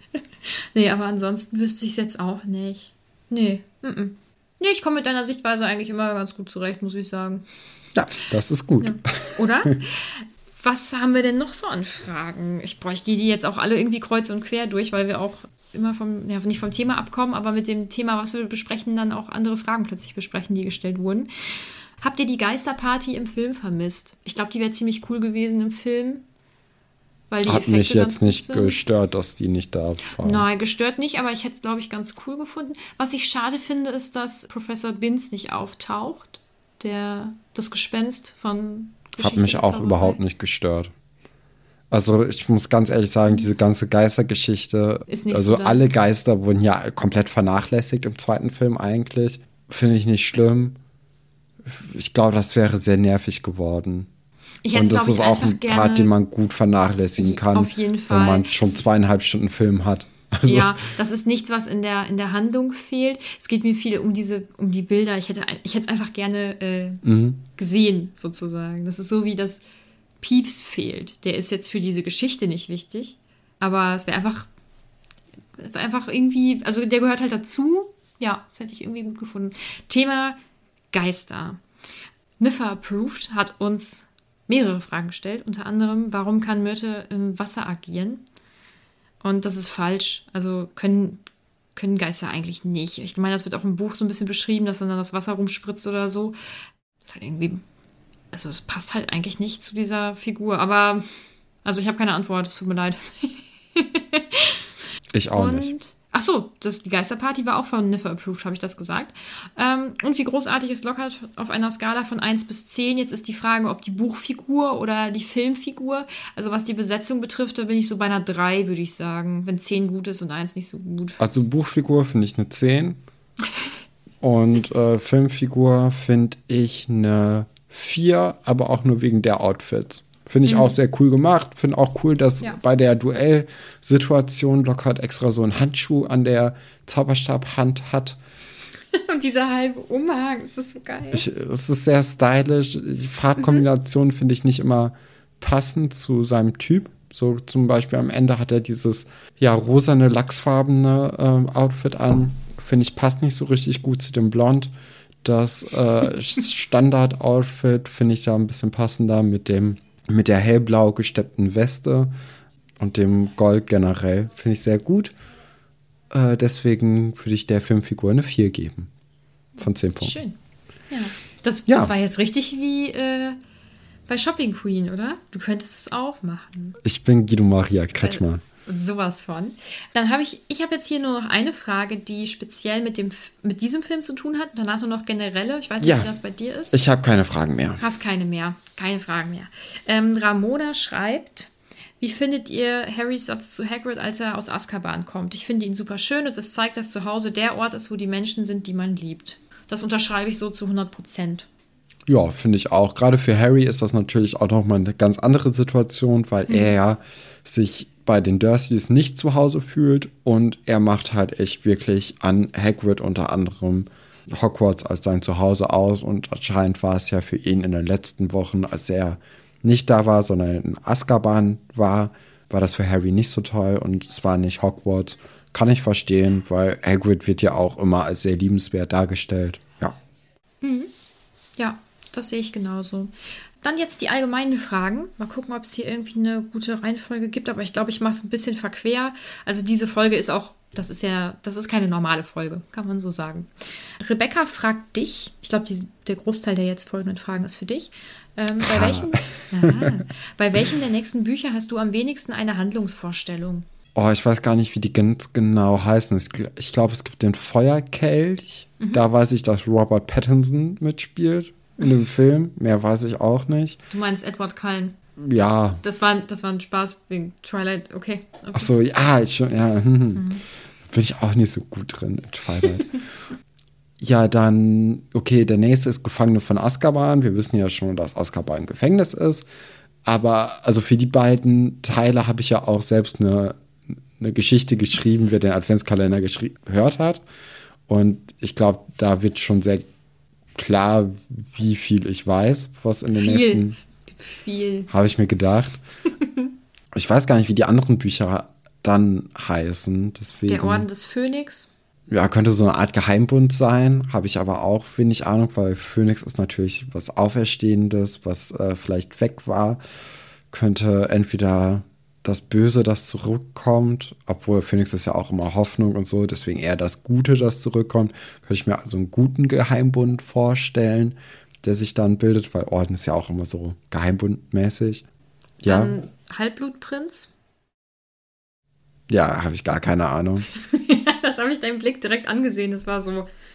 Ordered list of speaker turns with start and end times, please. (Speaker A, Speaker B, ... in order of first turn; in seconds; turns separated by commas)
Speaker A: 0.7-7.4, Speaker B: 7.9-9.8, Speaker A: 8.8-21.3, Speaker A: 22.0-26.2, Speaker A: 27.3-28.8, Speaker B: 27.4-30.5, Speaker A: 30.2-40.2, Speaker B: 39.2-40.9, Speaker B: 41.9-50.8, Speaker A: 45.1-45.9, Speaker B: 51.6-54.1, Speaker A: 54.6-56.1, Speaker B: 54.7-60.8, Speaker A: 57.2-58.9, Speaker A: 60.4-67.0, Speaker B: 67.0-67.4, Speaker A: 67.5-69.6, Speaker A: 70.2-74.5, Speaker A: 75.6-80.4, Speaker A: 80.9-81.6, Speaker A: 82.4-88.2, Speaker A: 89.2-91.2, Speaker A: 91.8-96.4, Speaker A: 97.0-97.6, Speaker A: 98.3-101.0, Speaker A: 101.6-104.6, Speaker B: 105.1-105.7, Speaker A: 105.3-121.2, Speaker B: 121.2-123.0, Speaker B: 124.2-138.2, Speaker A: 130.4-130.8, Speaker A: 138.9-141.2, Speaker B: 141.1-154.7, Speaker B: 155.2-162.1, Speaker B: 162.8-165.1, Speaker B: 166.1-168.9, Speaker B: 169.6-170.2, Speaker A: 170.0-170.3, Speaker A: 170.9-173.4, Speaker B: 171.7-171.9, Speaker A: 174.1-176.8, Speaker B: 176.8-178.4, Speaker A: 178.0-186.8, Speaker B: 185.8-186.1, Speaker B: 186.7-187.8, Speaker A: 187.8-201.4, Speaker B: 202.1-229.9, Speaker A: 206.5-206.8, Speaker A: 230.6-230.9, Speaker A: 231.6-243.5, Speaker A: 244.0-253.6, Speaker B: 248.6-249.9, Speaker B: 253.9-263.8, Speaker A: 258.8-259.1, Speaker A: 263.9-264.9, Speaker B: 265.2-265.8, Speaker A: 265.8-268.7, Speaker B: 268.5-270.2, Speaker A: 270.1-270.4, Speaker B: 270.9-272.9, Speaker B: 274.0-279.4, Speaker B: 280.0-283.6, Speaker B: 284.2-287.2, Speaker B: 287.9-289.9, Speaker B: 290.6-293.8, Speaker A: 293.1-294.9, Speaker B: 294.9-295.8, Speaker A: 296.2-296.5, Speaker B: 296.9-300.9, Speaker A: 300.4-301.7, Speaker B: 302.1-309.8, Speaker B: 310.5-325.0, Speaker B: 325.6-325.9, Speaker A: 325.6-327.3, Speaker B: 329.1-330.5, Speaker A: 330.6-333.3